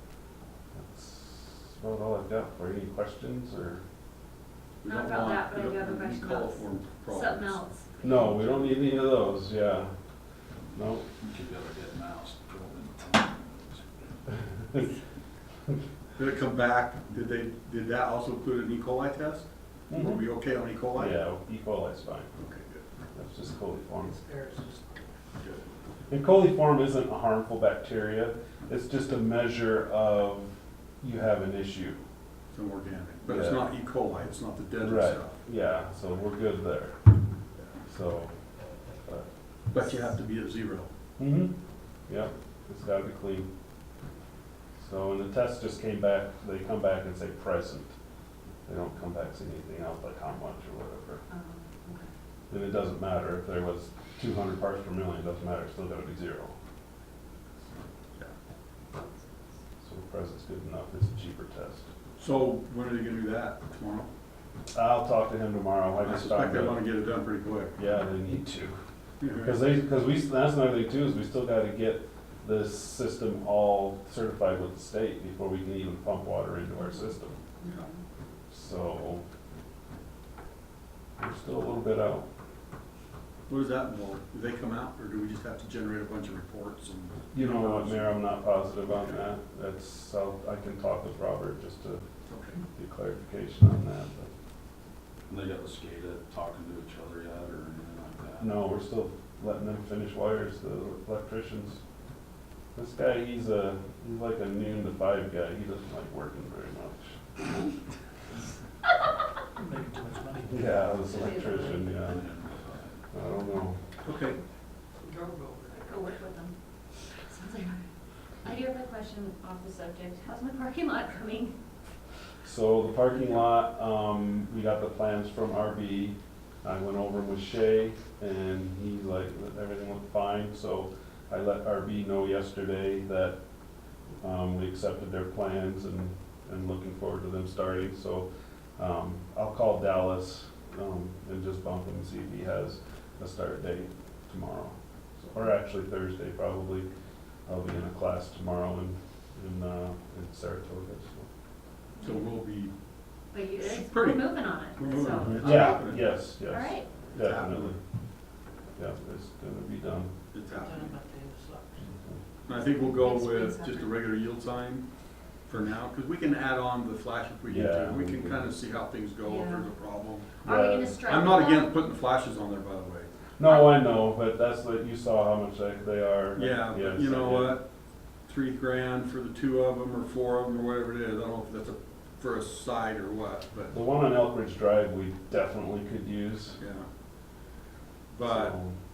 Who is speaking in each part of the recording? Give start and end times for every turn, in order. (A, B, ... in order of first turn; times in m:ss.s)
0:00.8-0:03.8 A
0:04.8-0:07.6 B
0:04.8-0:08.9 C
0:08.0-0:09.9 A
0:10.7-0:11.1 A
0:11.2-0:13.9 D
0:16.2-0:21.2 B
0:19.9-0:20.2 A
0:20.9-0:22.3 A
0:22.4-0:22.8 B
0:23.1-0:24.2 A
0:24.0-0:25.1 E
0:26.1-0:32.0 A
0:32.5-0:35.3 B
0:33.3-0:33.6 A
0:34.8-0:37.0 A
0:37.9-0:38.4 A
0:39.7-0:40.9 B
0:41.2-0:41.5 A
0:42.1-0:43.5 A
0:44.8-0:47.9 A
0:48.6-0:51.2 A
0:51.3-0:52.1 C
0:52.5-0:56.5 A
0:59.8-1:01.9 A
1:02.2-1:04.1 B
1:04.7-1:06.8 A
1:06.0-1:07.8 B
1:07.8-1:08.8 A
1:09.2-1:09.5 B
1:09.4-1:17.4 A
1:17.6-1:18.0 C
1:18.5-1:19.2 A
1:21.2-1:22.2 A
1:23.5-1:28.2 B
1:27.3-1:32.0 A
1:28.9-1:29.2 B
1:32.3-1:32.6 B
1:32.7-1:34.3 A
1:35.3-1:38.6 D
1:38.4-1:41.8 A
1:42.7-1:47.1 A
1:49.6-1:50.6 E
1:50.5-1:52.2 A
1:51.1-1:51.9 C
1:52.0-1:53.0 D
1:53.1-1:53.8 A
1:54.0-1:54.4 B
1:55.0-1:55.9 E
1:55.7-1:56.5 C
1:57.2-1:57.8 C
1:58.4-2:01.5 C
2:02.4-2:13.4 A
2:14.2-2:18.2 A
2:18.8-2:26.9 A
2:27.5-2:31.3 A
2:32.0-2:32.2 C
2:32.0-2:32.7 B
2:33.3-2:35.8 C
2:33.6-2:36.1 B
2:35.2-2:37.8 A
2:36.5-2:36.9 C
2:37.1-2:37.8 B
2:38.8-2:40.1 A
2:40.3-2:41.0 B
2:40.5-2:41.7 E
2:41.9-2:42.2 A
2:42.5-2:44.8 B
2:42.5-2:43.9 C
2:45.5-2:50.3 B
2:47.5-2:48.4 A
2:49.2-2:49.6 C
2:50.4-2:51.7 C
2:50.4-2:51.0 A
2:51.0-2:53.1 B
2:53.4-2:57.6 A
2:53.4-2:53.7 C
2:56.3-2:57.6 B
2:58.3-3:03.7 B
3:03.7-3:06.6 A
3:06.6-3:06.8 B
3:08.1-3:08.5 B
3:08.2-3:08.7 A